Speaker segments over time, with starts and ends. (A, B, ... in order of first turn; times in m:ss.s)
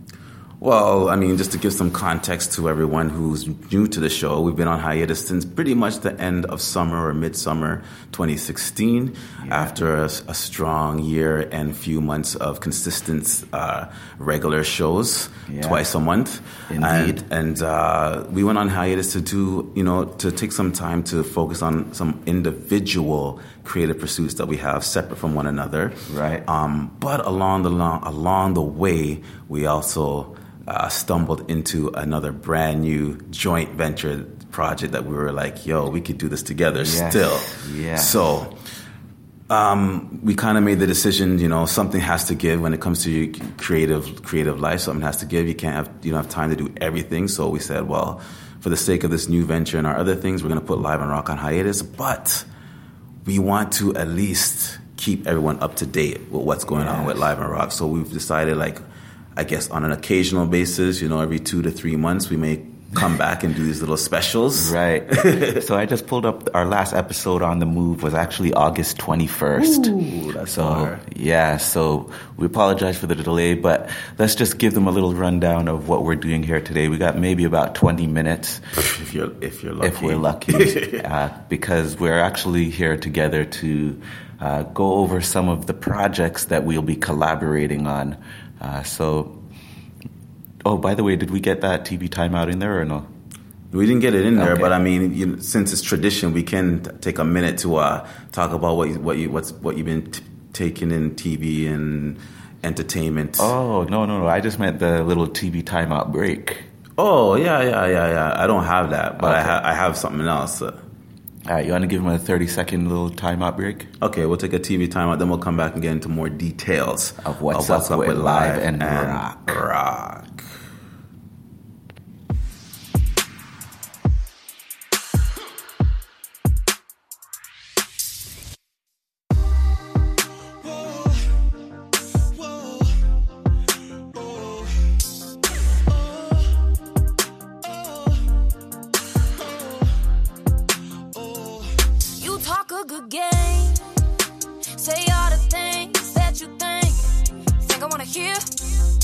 0:00.6-0:38.6 A
0:09.4-0:09.8 B
0:15.5-0:15.8 B
0:16.7-0:17.2 B
0:26.1-0:26.4 B
0:36.8-0:38.3 B
0:39.5-0:52.4 A
0:53.2-0:58.8 A
0:56.7-0:57.3 B
0:59.4-1:05.6 A
1:04.5-1:09.9 B
1:09.6-1:11.0 A
1:10.5-1:18.6 B
1:18.7-1:21.0 A
1:19.8-1:29.4 B
1:30.6-1:33.1 B
1:33.7-1:43.5 A
1:34.4-1:34.7 B
1:43.4-1:46.6 B
1:47.0-1:50.8 A
1:49.2-1:49.6 B
1:51.4-1:53.9 B
1:54.0-2:00.5 A
1:57.2-1:59.6 B
2:22.2-2:23.8 C
2:24.7-2:27.1 C
2:27.6-2:28.6 C